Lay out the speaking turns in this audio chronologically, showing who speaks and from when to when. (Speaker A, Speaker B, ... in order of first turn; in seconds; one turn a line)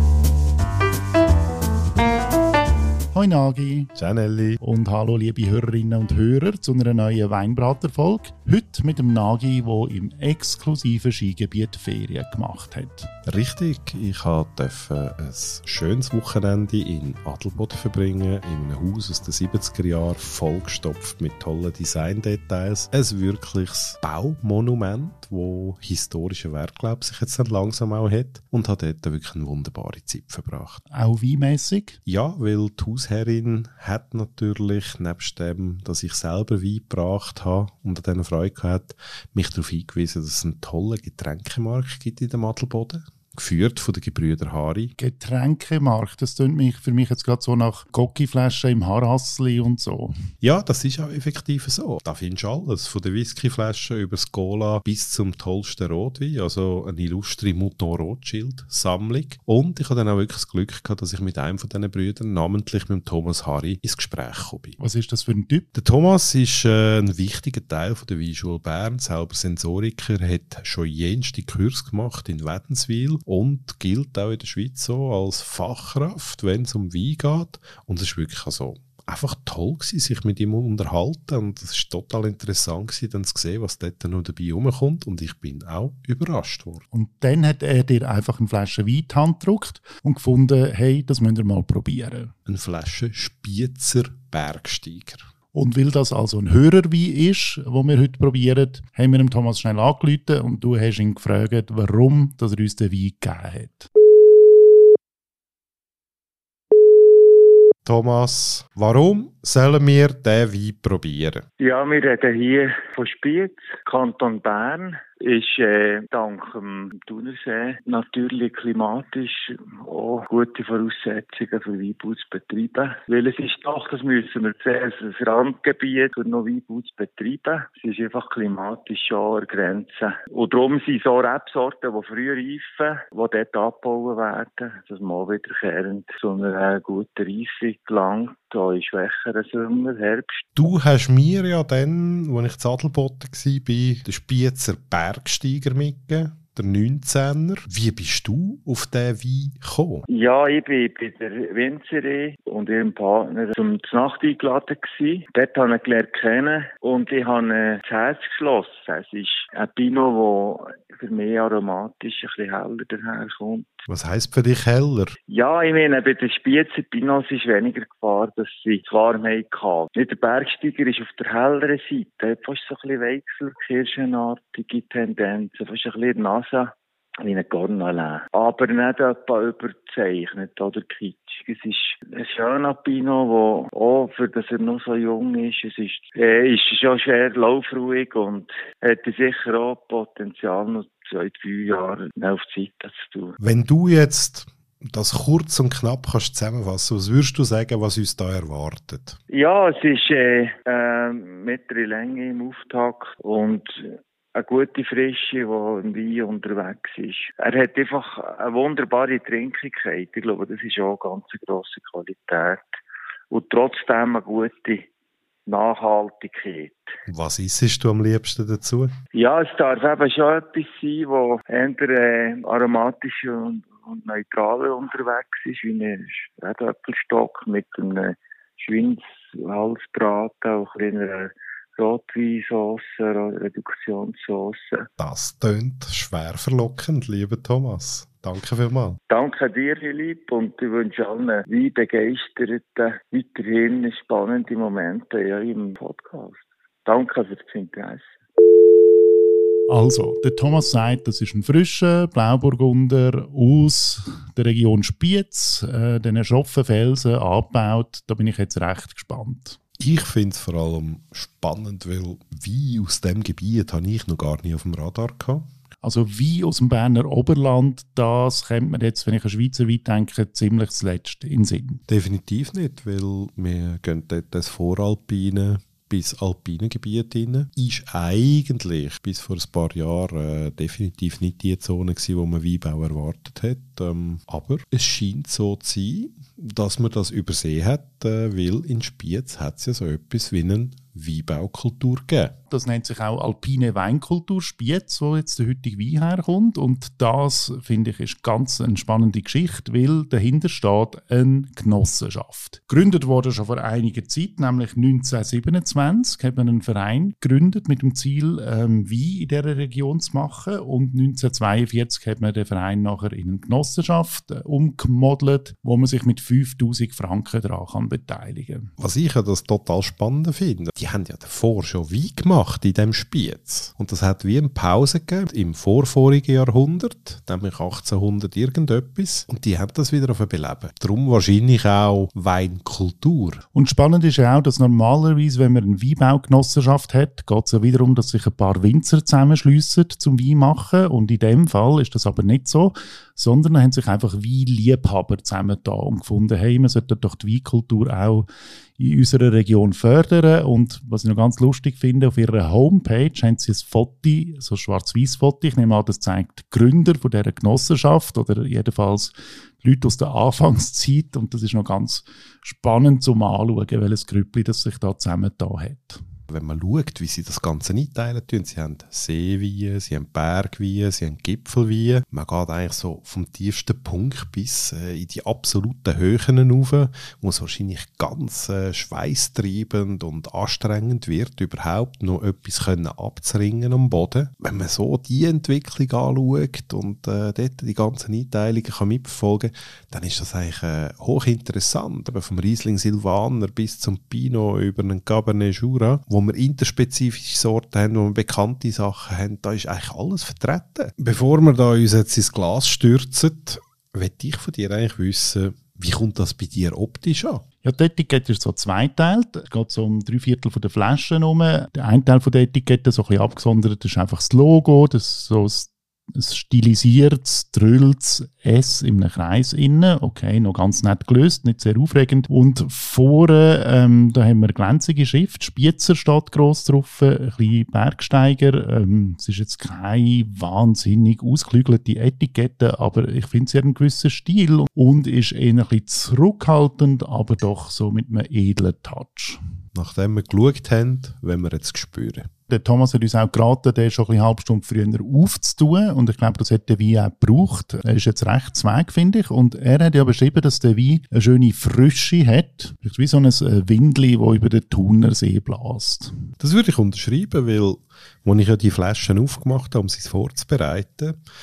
Speaker A: 3.1-3.9
Speaker B: 4.0-4.6
Speaker A: 4.6-13.1
Speaker B: 13.2-30.8
Speaker A: 30.9-32.0
Speaker B: 32.0-44.9
Speaker A: 45.0-50.1
Speaker B: 50.4-64.8
Speaker A: 64.8-65.7
Speaker B: 65.7-86.8
Speaker A: 86.9-92.3
Speaker B: 92.5-95.2
Speaker A: 95.5-103.9
Speaker B: 107.8-111.4
Speaker C: 111.6-140.4
Speaker B: 140.5-150.0
Speaker C: 150.1-163.8
Speaker B: 163.9-165.2
Speaker C: 165.3-176.7
Speaker C: 177.2-193.4
Speaker B: 193.4-199.2
Speaker C: 199.3-212.8
Speaker C: 213.3-214.9
Speaker C: 215.5-216.9
Speaker B: 217.1-218.9
Speaker C: 219.1-234.9
Speaker B: 235.0-239.0
Speaker C: 239.1-248.1
Speaker A: 249.7-259.6
Speaker B: 259.8-265.4
Speaker A: 265.8-271.8
Speaker B: 271.9-292.3
Speaker A: 292.5-318.7
Speaker B: 318.8-333.4
Speaker A: 333.5-366.0
Speaker B: 366.3-407.4
Speaker A: 407.6-439.4
Speaker B: 439.7-442.3
Speaker A: 442.5-456.1
Speaker B: 456.4-461.2